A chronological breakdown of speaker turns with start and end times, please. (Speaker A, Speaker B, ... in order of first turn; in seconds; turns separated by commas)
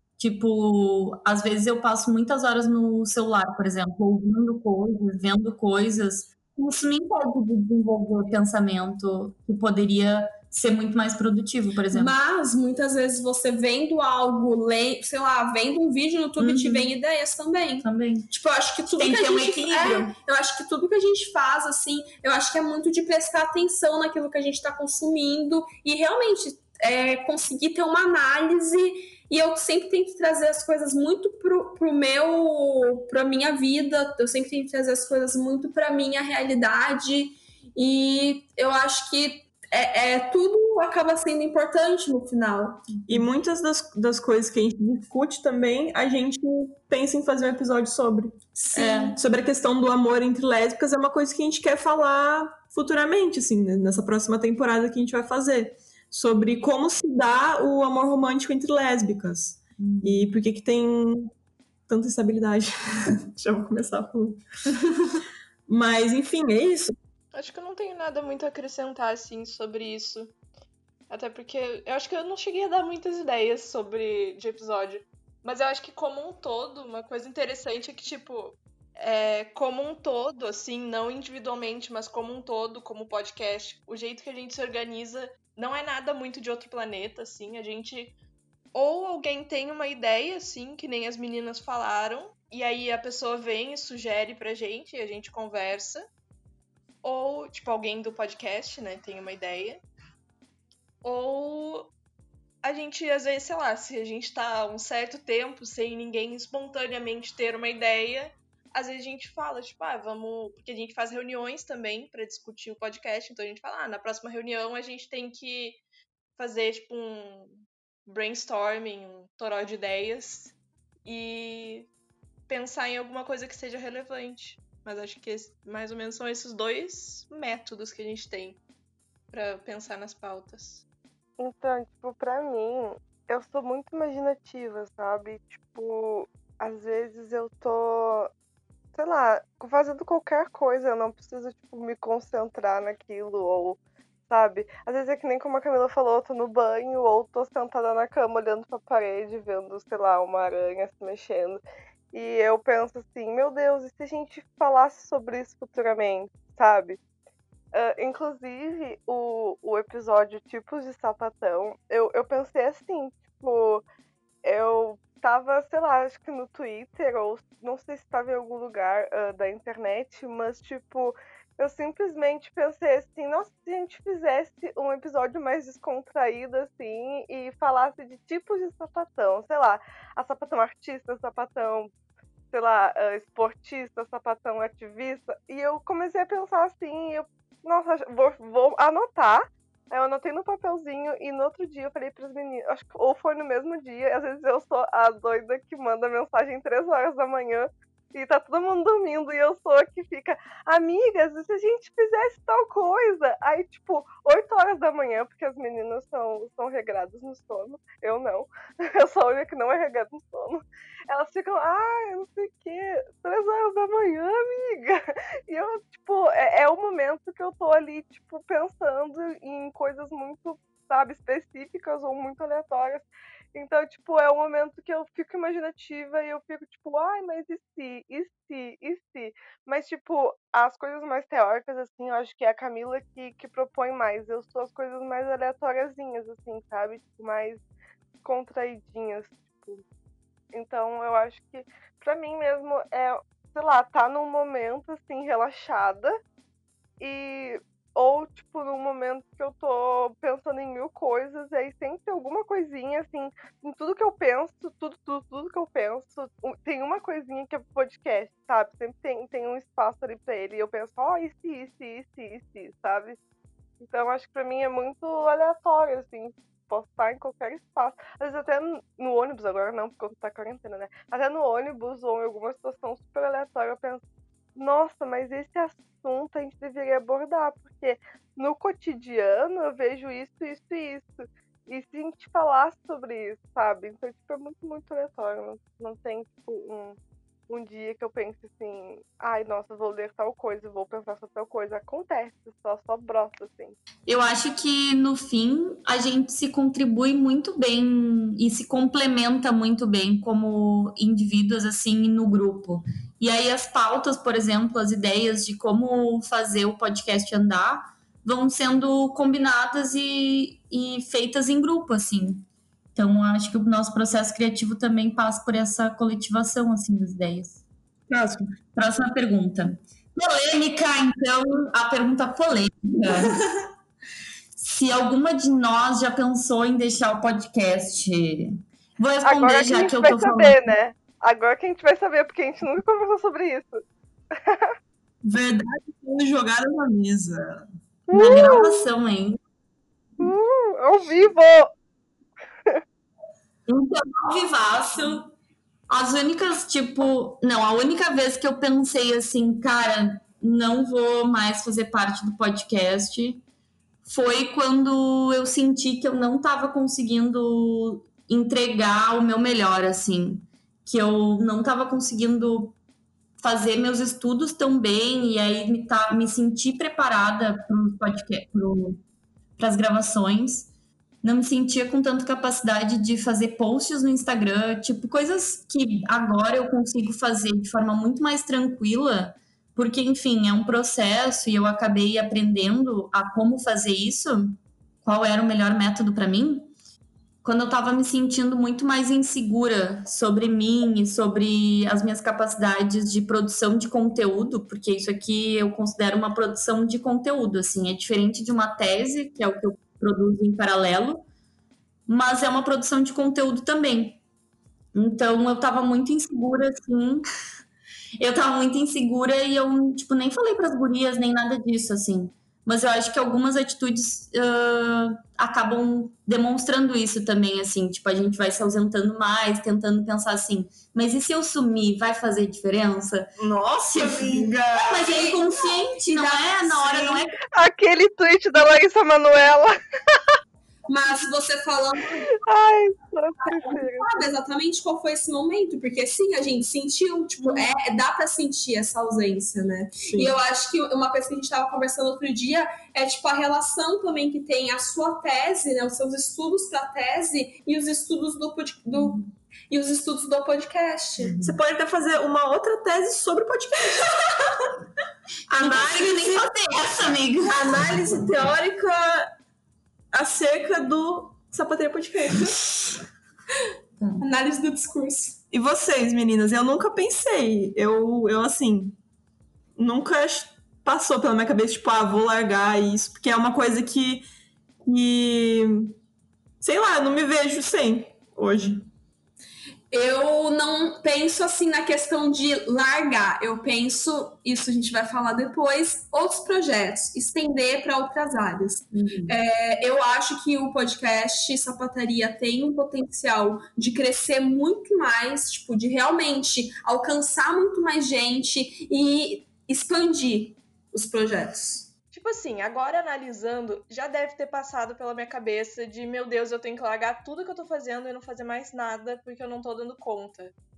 Speaker A: 0.2-12.1, Speaker B: 11.9-42.9, Speaker A: 16.4-16.9, Speaker A: 17.8-18.3, Speaker A: 19.0-20.1, Speaker C: 43.1-61.3, Speaker A: 48.6-49.2, Speaker A: 59.8-60.3, Speaker C: 61.9-64.4, Speaker C: 65.7-67.0, Speaker D: 67.3-70.3, Speaker D: 71.1-88.2, Speaker D: 88.7-96.1, Speaker D: 97.0-99.8, Speaker D: 101.0-101.9, Speaker D: 102.6-115.8, Speaker D: 116.4-121.9, Speaker D: 122.5-128.6, Speaker D: 129.3-130.8, Speaker E: 131.4-138.3, Speaker E: 138.9-151.6, Speaker E: 152.1-157.0, Speaker E: 157.7-163.8, Speaker E: 164.4-181.9, Speaker E: 182.5-237.6, Speaker E: 238.2-239.8, Speaker E: 240.5-246.2, Speaker E: 247.0-263.2, Speaker E: 263.8-274.0, Speaker E: 274.6-287.0, Speaker E: 287.5-293.8, Speaker A: 294.1-317.6, Speaker C: 318.1-318.5, Speaker A: 318.7-323.6, Speaker A: 324.6-330.8, Speaker E: 329.2-333.8, Speaker E: 334.3-334.7, Speaker C: 335.2-337.7, Speaker E: 338.1-338.9, Speaker A: 338.1-339.4, Speaker E: 340.2-341.7, Speaker A: 343.7-345.3, Speaker A: 345.9-353.4, Speaker A: 354.1-362.8, Speaker A: 363.4-369.0, Speaker A: 369.6-370.7, Speaker A: 371.2-386.7, Speaker A: 387.4-401.2, Speaker A: 402.1-404.2, Speaker A: 404.9-407.2, Speaker A: 408.2-427.4, Speaker C: 423.4-425.1, Speaker B: 425.1-425.4, Speaker C: 426.1-427.2, Speaker E: 427.5-429.8, Speaker B: 430.9-432.3, Speaker E: 432.4-434.2, Speaker B: 433.5-451.4, Speaker C: 440.0-440.4, Speaker C: 451.2-454.0, Speaker C: 455.5-456.4, Speaker A: 455.5-458.1, Speaker B: 455.9-456.2, Speaker B: 457.5-459.2, Speaker C: 457.9-458.4, Speaker C: 460.1-462.5, Speaker B: 462.2-462.5, Speaker A: 464.0-464.2, Speaker B: 464.2-465.4, Speaker C: 465.5-469.0, Speaker C: 469.8-474.3, Speaker C: 474.8-475.9, Speaker C: 476.6-478.9, Speaker B: 479.9-501.9, Speaker A: 488.9-489.4, Speaker D: 502.1-510.5